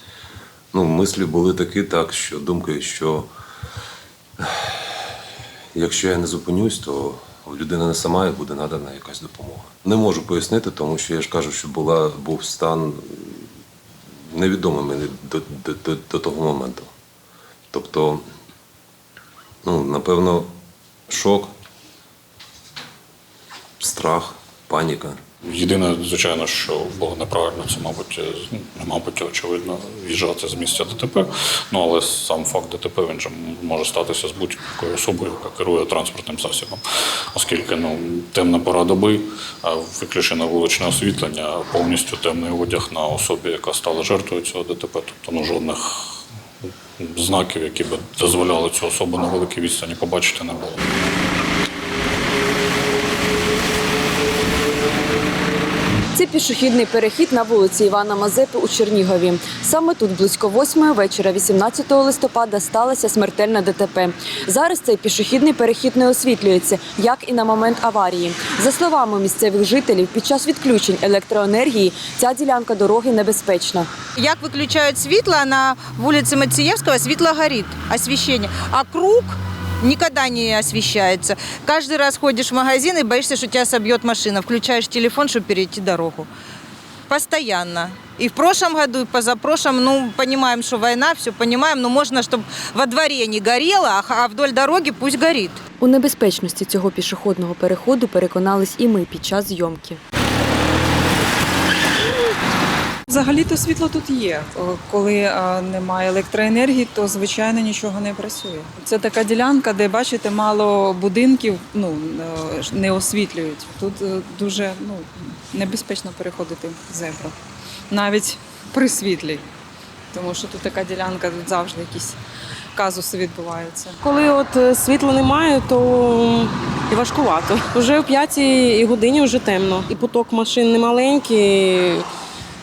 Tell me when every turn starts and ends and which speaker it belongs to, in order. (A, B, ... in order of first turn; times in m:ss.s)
0:00.7-0:03.3 A
0:05.7-0:13.4 A
0:14.3-0:16.9 A
0:17.7-0:18.2 A
0:19.6-0:20.5 A
0:21.1-0:21.5 A
0:23.8-0:25.2 A
0:25.5-0:36.8 B
0:37.3-0:46.0 B
0:47.0-0:50.7 B
0:56.1-1:13.9 C
1:14.2-1:26.3 D
1:27.1-1:35.6 D
1:35.8-1:40.0 C
1:43.1-1:57.3 E
1:57.9-1:59.4 E
2:00.1-2:02.2 E
2:02.8-2:04.0 E
2:04.0-2:12.1 F